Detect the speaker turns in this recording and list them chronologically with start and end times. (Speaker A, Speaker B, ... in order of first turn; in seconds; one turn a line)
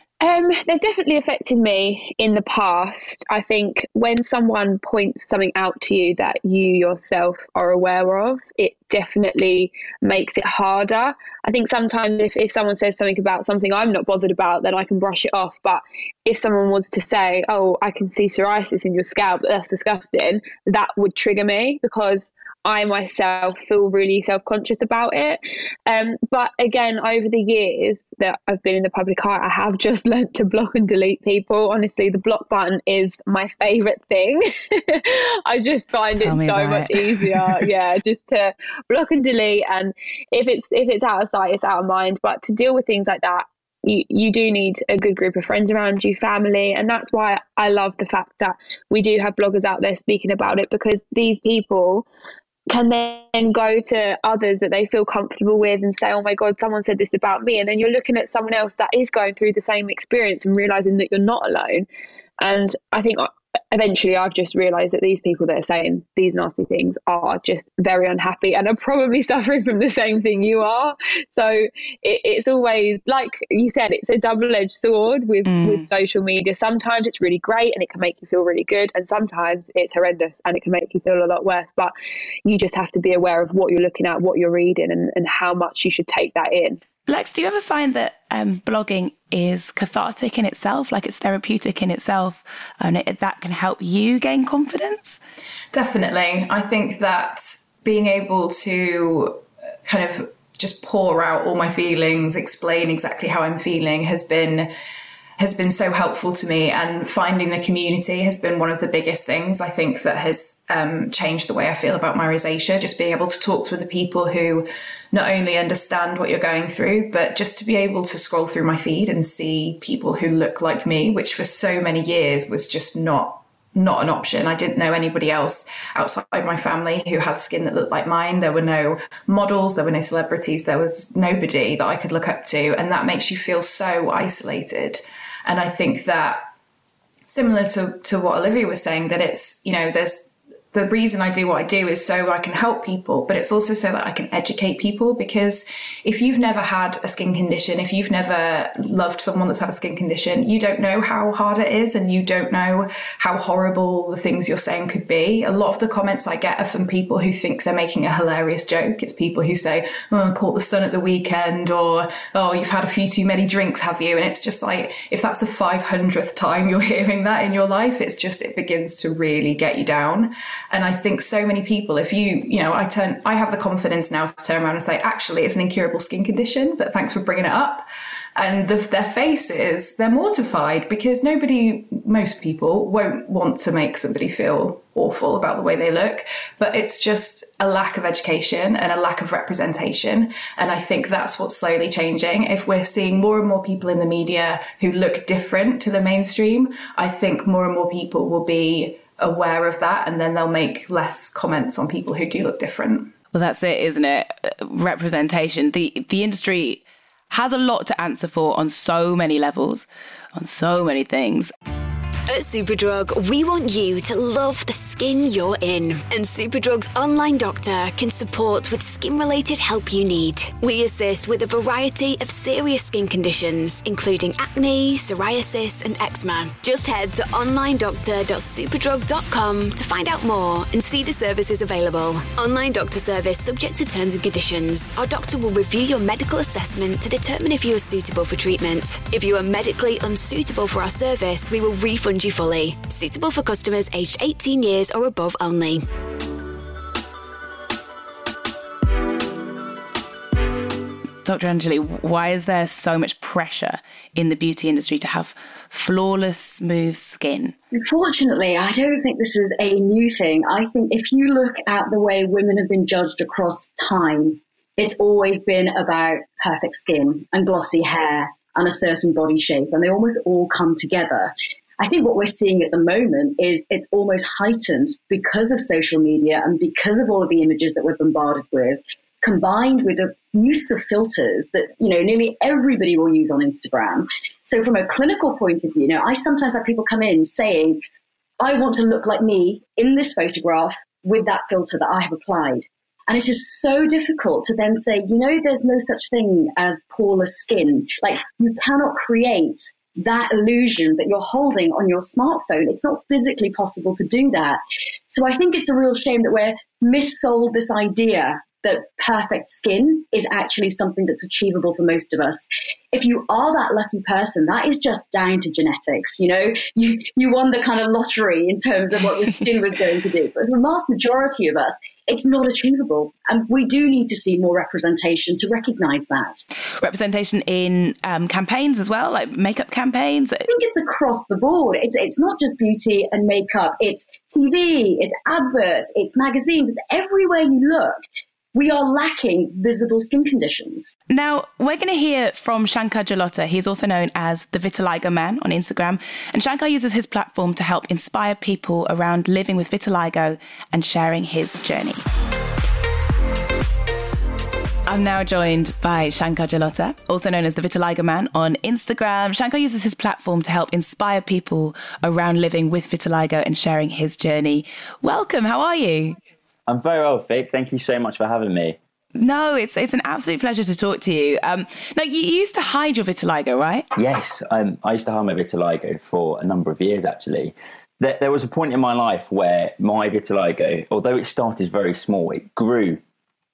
Speaker A: 0.2-52.1
Speaker B: 36.1-37.7
Speaker A: 52.7-61.9
Speaker A: 62.4-81.9
Speaker B: 75.5-75.9
Speaker A: 82.4-86.8
Speaker B: 87.1-95.2
Speaker C: 95.7-104.7
Speaker C: 105.4-136.4
Speaker C: 137.3-203.1
Speaker B: 203.3-211.5
Speaker D: 212.3-245.8
Speaker B: 251.2-257.5
Speaker E: 257.8-287.8
Speaker E: 288.4-326.4
Speaker B: 326.8-330.5
Speaker E: 330.5-338.0
Speaker E: 338.5-340.9
Speaker B: 341.1-352.0
Speaker B: 354.9-366.2
Speaker F: 366.7-368.8
Speaker B: 369.1-373.9
Speaker F: 373.9-383.0